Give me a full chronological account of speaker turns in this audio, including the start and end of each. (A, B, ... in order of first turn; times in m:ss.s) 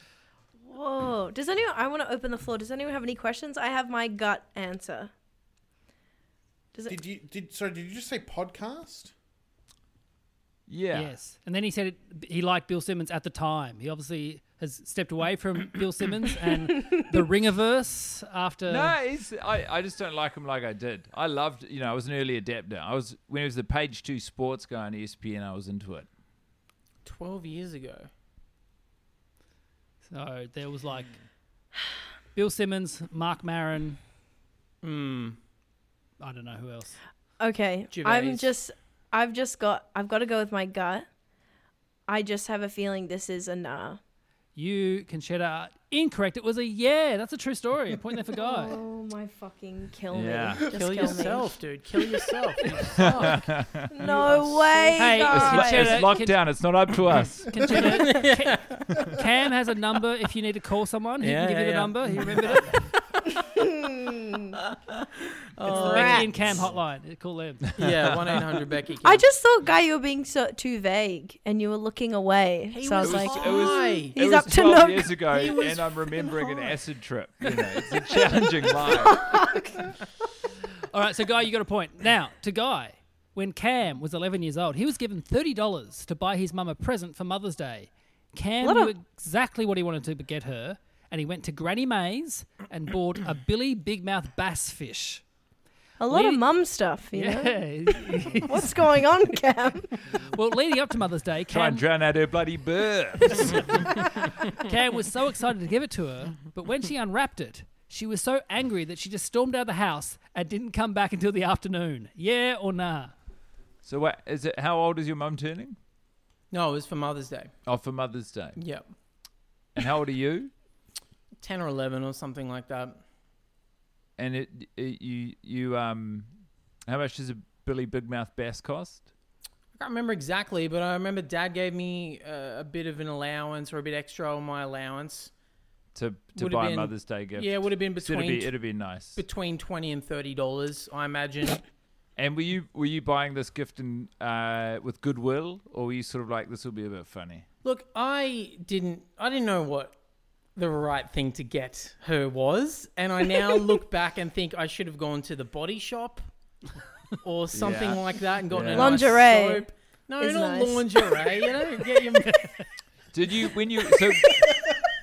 0:00.6-0:05.1 A
0:06.9-0:09.1 B
0:10.7-0:11.1 C
0:10.9-0:18.9 D
0:18.7-0:26.1 C
0:27.0-0:28.1 E
0:30.1-0:31.2 D
0:32.3-0:34.0 D
0:34.8-0:35.4 E
0:36.2-0:37.0 D
0:37.4-0:41.0 A
0:37.9-0:38.5 E
0:42.1-0:44.0 A
0:44.5-0:48.8 D
0:48.4-0:51.6 A
0:50.1-0:50.7 C
0:50.7-0:55.2 E
0:52.1-0:52.8 A
0:53.0-0:53.9 C
0:53.9-0:56.1 A
0:54.9-0:56.4 D
0:55.2-0:57.6 C
0:57.5-1:02.8 D
0:57.7-0:59.1 E
1:01.2-1:02.9 E
1:03.3-1:04.6 A
1:04.7-1:05.0 E
1:05.6-1:06.6 E
1:05.6-1:06.6 A
1:05.6-1:07.7 D
1:07.8-1:09.2 E
1:07.8-1:08.4 C
1:09.0-1:15.2 A
1:12.7-1:14.2 E
1:13.0-1:19.4 C
1:15.3-1:16.6 E
1:18.9-1:19.9 A
1:20.9-1:35.2 D
1:28.6-1:28.9 A
1:36.0-1:40.0 A
1:36.1-1:36.4 D
1:37.1-1:38.8 D
1:40.1-1:41.8 D
1:41.5-1:43.7 C
1:43.4-1:53.1 D
1:53.8-1:55.8 C
1:56.5-1:57.5 E
1:57.6-1:58.6 C
1:58.6-1:58.9 E
1:59.8-2:00.5 C
2:01.4-2:03.0 E
2:04.2-2:06.3 C
2:06.9-2:09.1 C
2:09.8-2:15.3 E
2:15.9-2:19.2 C
2:16.4-2:18.6 E
2:19.1-2:21.6 E
2:22.2-2:27.4 C
2:27.6-2:30.0 E
2:30.5-2:36.3 E
2:37.2-2:42.6 E
2:37.5-2:39.2 C
2:38.7-2:41.2 A
2:42.2-2:42.6 D
2:43.1-2:44.5 C